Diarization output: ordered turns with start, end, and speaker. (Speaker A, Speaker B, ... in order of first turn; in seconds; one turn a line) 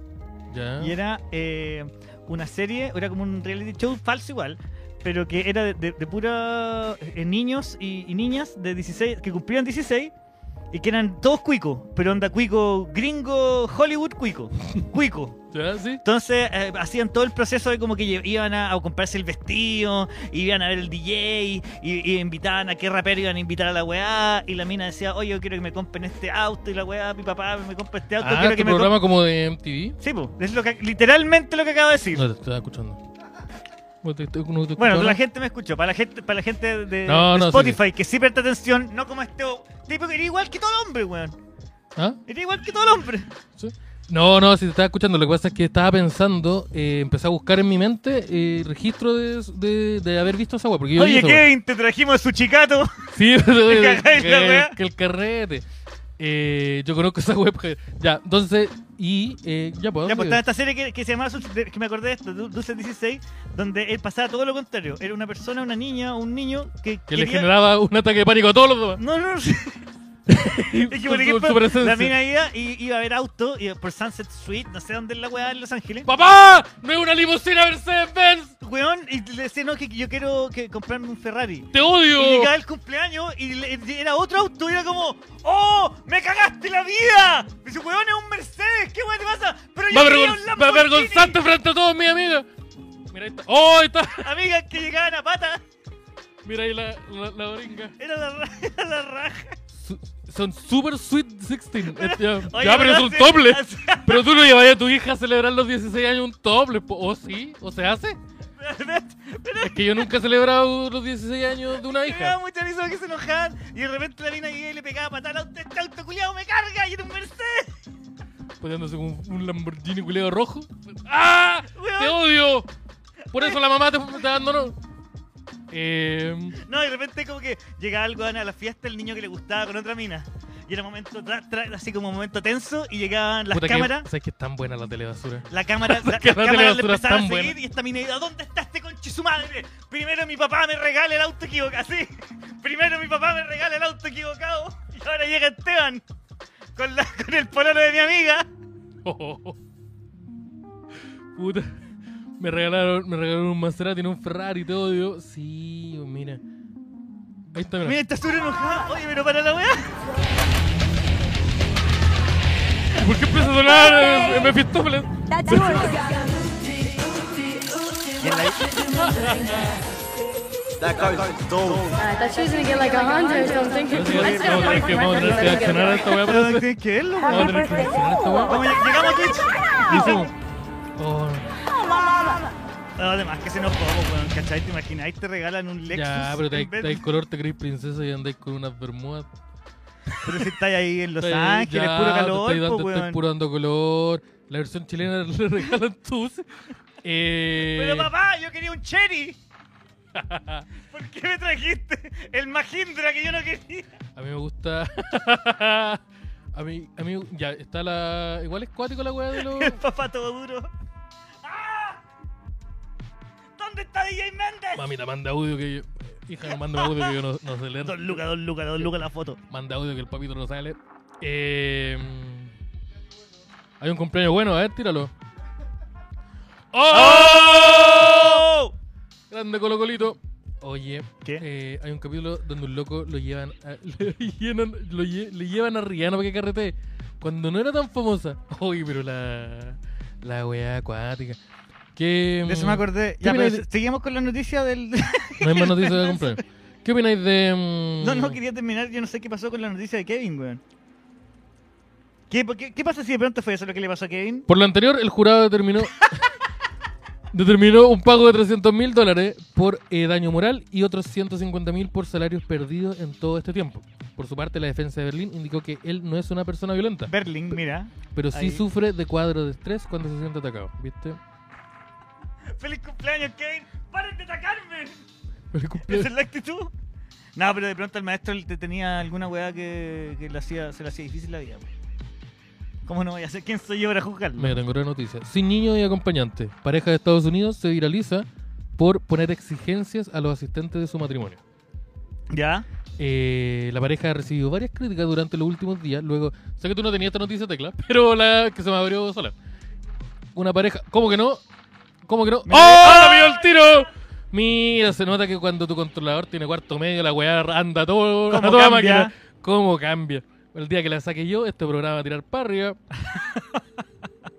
Speaker A: 0.5-0.9
Speaker B: 0.8-10.1
Speaker B: 10.7-15.4
Speaker A: 15.5-16.0
Speaker B: 16.0-29.0
Speaker A: 28.2-30.0
Speaker B: 30.0-32.2
Speaker A: 32.1-33.0
Speaker A: 34.0-35.2
Speaker B: 34.8-41.4
Speaker A: 37.0-37.8
Speaker B: 42.3-43.3
Speaker A: 43.5-51.5
Speaker B: 51.0-52.9
Speaker A: 53.1-55.6
Speaker B: 53.6-54.8
Speaker A: 56.2-60.4
Speaker B: 60.0-67.5
Speaker A: 67.1-69.0
Speaker B: 69.0-69.8
Speaker A: 70.3-72.2
Speaker B: 70.7-76.1
Speaker A: 76.0-78.5
Speaker B: 78.6-91.4
Speaker A: 81.7-82.5
Speaker A: 89.9-92.5
Speaker A: 93.1-94.3
Speaker B: 94.2-95.6
Speaker A: 96.4-97.9
Speaker B: 98.0-99.6
Speaker A: 99.7-108.2
Speaker B: 101.8-104.3
Speaker B: 108.6-110.1
Speaker A: 109.6-112.4
Speaker B: 111.8-117.8
Speaker A: 118.6-122.7
Speaker B: 121.7-122.3
Speaker A: 123.3-124.8
Speaker A: 125.7-126.6
Speaker B: 126.6-134.1
Speaker A: 133.5-137.6
Speaker B: 135.5-146.0
Speaker B: 146.8-148.5
Speaker A: 149.0-149.6
Speaker A: 151.3-151.7
Speaker A: 152.4-156.4
Speaker A: 157.5-158.0
Speaker B: 157.8-160.0
Speaker A: 162.9-166.0
Speaker B: 168.2-168.7
Speaker A: 168.9-169.7
Speaker C: 171.9-175.1
Speaker A: 173.9-176.7
Speaker B: 174.1-177.8
Speaker A: 177.3-178.6
Speaker B: 178.5-180.3
Speaker A: 179.8-180.3
Speaker A: 181.0-181.5
Speaker B: 183.0-187.0
Speaker A: 185.9-189.3
Speaker A: 190.1-190.5
Speaker B: 190.2-193.2
Speaker A: 191.2-198.1
Speaker B: 197.6-199.4
Speaker A: 200.1-200.7
Speaker B: 200.8-203.9
Speaker A: 204.2-206.0
Speaker A: 206.5-209.8
Speaker B: 209.3-210.7
Speaker B: 211.4-212.0
Speaker B: 213.6-214.8
Speaker A: 214.8-218.2
Speaker B: 216.5-217.2
Speaker B: 217.8-219.4
Speaker A: 219.5-222.5
Speaker A: 223.8-225.1
Speaker A: 226.7-228.4
Speaker B: 226.9-228.7
Speaker A: 229.3-241.4
Speaker A: 241.9-243.6
Speaker B: 242.4-246.4
Speaker A: 245.4-248.4
Speaker B: 248.0-250.6
Speaker B: 252.3-254.4
Speaker A: 254.5-256.2
Speaker A: 257.3-267.1
Speaker B: 267.1-268.6
Speaker A: 268.1-271.2
Speaker B: 272.5-275.0
Speaker A: 275.5-276.1
Speaker B: 275.8-276.7
Speaker B: 277.4-281.7
Speaker B: 282.9-284.6
Speaker A: 284.4-288.3
Speaker A: 288.8-291.4
Speaker B: 292.3-292.6
Speaker A: 293.0-299.3
Speaker A: 300.3-301.4
Speaker A: 302.1-312.8
Speaker B: 302.5-303.4
Speaker B: 308.3-309.1
Speaker B: 313.1-313.6